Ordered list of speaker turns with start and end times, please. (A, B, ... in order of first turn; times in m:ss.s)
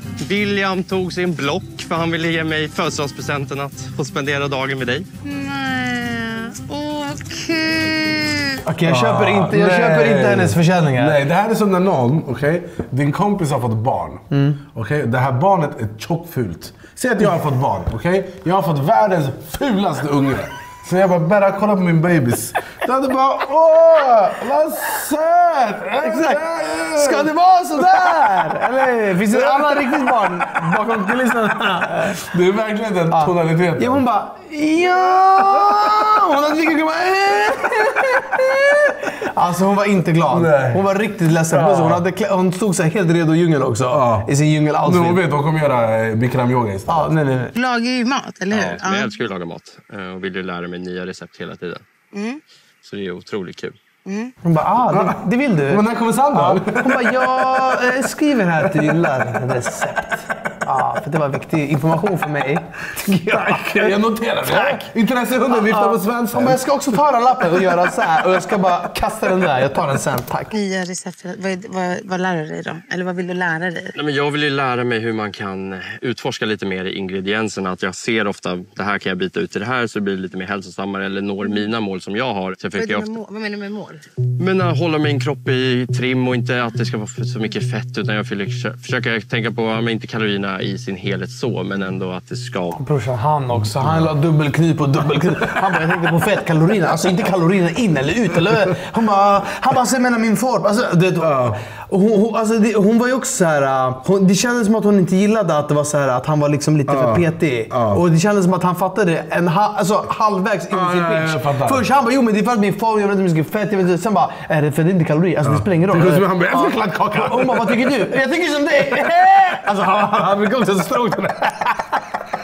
0:00.2-0:05.1 A
0:05.2-0:08.6 B
0:08.7-0:11.2 C
0:08.9-0:14.2 D
0:14.3-0:14.6 C
0:14.7-0:31.0 D
0:26.0-0:26.4 C
0:27.0-0:32.3 C
0:32.0-0:34.0 D
0:33.1-0:45.2 C
0:35.4-0:36.0 D
0:40.3-0:40.8 D
0:41.5-0:42.0 D
0:43.9-0:44.3 D
0:44.8-0:47.1 D
0:46.9-0:47.5 C
0:47.6-0:49.1 B
0:48.5-0:51.8 A
0:52.1-0:52.4 B
0:52.8-0:53.8 A
0:54.0-0:54.3 B
0:54.4-1:04.8 C
0:54.9-0:55.2 D
0:55.7-0:57.9 D
0:58.8-0:59.2 D
1:03.3-1:06.6 D
1:05.5-1:10.5 C
1:10.5-1:14.0 B
1:14.0-1:23.1 A
1:22.7-1:24.0 B
1:24.4-1:32.8 A
1:32.8-2:01.7 C
1:33.8-1:34.1 D
1:41.2-1:41.6 D
1:46.9-1:48.0 D
1:50.7-1:51.8 D
1:55.4-1:58.1 D